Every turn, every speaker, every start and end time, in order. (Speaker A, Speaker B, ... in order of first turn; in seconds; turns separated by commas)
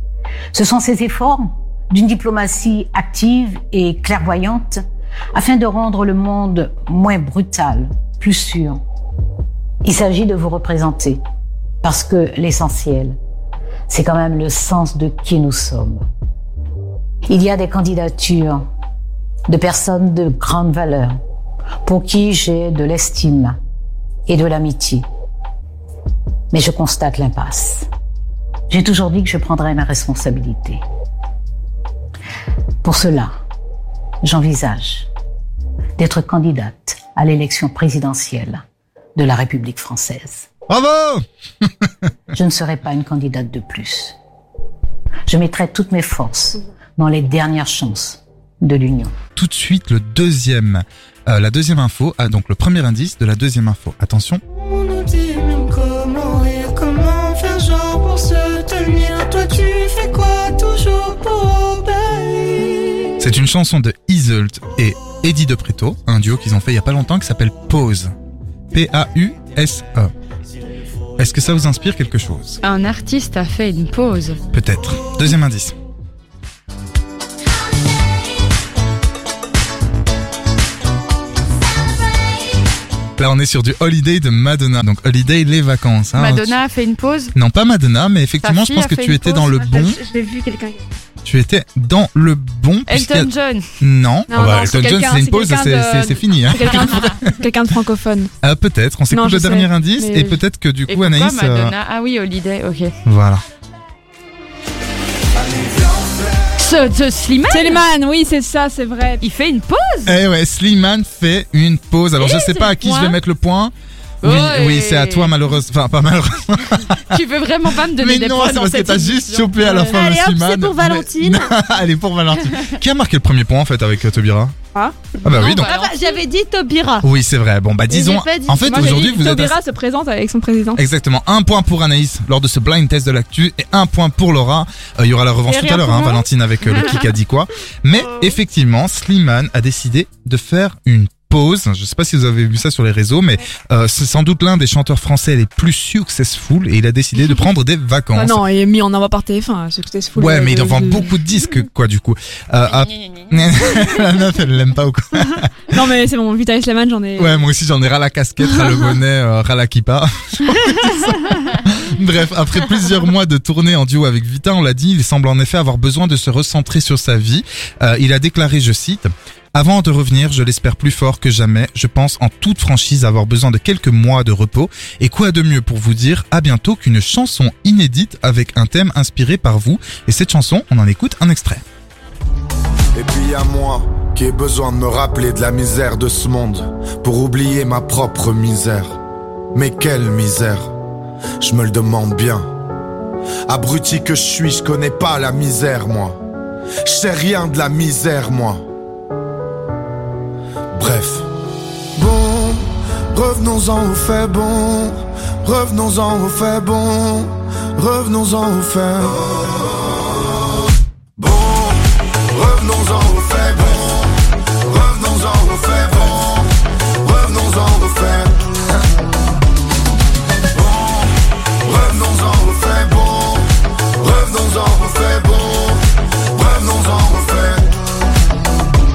Speaker A: 0.5-4.8, Speaker A: 5.3-8.8, Speaker A: 9.8-11.2, Speaker A: 11.8-13.2, Speaker A: 13.9-16.0, Speaker A: 17.3-18.6, Speaker A: 19.5-21.1, Speaker A: 21.8-23.6, Speaker A: 24.3-25.0, Speaker A: 26.5-27.9, Speaker A: 28.7-30.8, Speaker A: 32.8-33.3, Speaker A: 34.2-35.1, Speaker A: 36.0-38.6, Speaker A: 39.1-40.5, Speaker B: 40.7-41.9, Speaker A: 42.3-44.1, Speaker A: 45.3-49.1, Speaker B: 49.4-54.4, Speaker C: 55.0-62.2, Speaker B: 63.2-68.1, Speaker B: 68.7-70.1, Speaker B: 71.2-72.6, Speaker D: 72.6-74.4, Speaker B: 74.5-75.7, Speaker B: 83.2-86.6, Speaker D: 86.2-87.3, Speaker B: 87.3-90.0, Speaker D: 88.4-89.5, Speaker E: 89.5-90.8, Speaker B: 91.2-97.3, Speaker D: 92.9-93.7, Speaker E: 94.3-98.3, Speaker B: 98.4-101.7, Speaker E: 99.1-100.4, Speaker D: 100.9-102.9, Speaker B: 103.0-103.4, Speaker D: 106.6-107.8, Speaker E: 107.5-109.2, Speaker D: 109.2-110.2, Speaker B: 110.0-117.2, Speaker D: 112.2-113.2, Speaker D: 114.2-115.3, Speaker D: 117.1-119.8, Speaker B: 118.0-124.5, Speaker F: 119.6-121.5, Speaker B: 125.2-125.7, Speaker D: 125.3-126.2, Speaker F: 125.4-127.0, Speaker B: 127.0-129.6, Speaker F: 127.9-128.9, Speaker E: 128.6-130.8, Speaker B: 130.8-148.4, Speaker F: 135.5-136.2, Speaker D: 136.7-137.0, Speaker E: 148.2-151.1, Speaker B: 150.1-155.8, Speaker D: 152.6-153.9, Speaker E: 155.7-157.4, Speaker B: 157.2-181.6, Speaker G: 182.9-189.0, Speaker G: 189.5-190.7, Speaker G: 191.4-192.5, Speaker G: 193.5-196.2, Speaker G: 196.8-198.6, Speaker G: 200.7-201.3, Speaker G: 201.9-209.4, Speaker G: 211.2-211.8, Speaker G: 212.3-214.1, Speaker G: 214.7-216.5, Speaker G: 217.0-218.4, Speaker G: 220.6-220.9, Speaker G: 221.7-223.4, Speaker G: 224.0-225.8, Speaker G: 226.3-227.7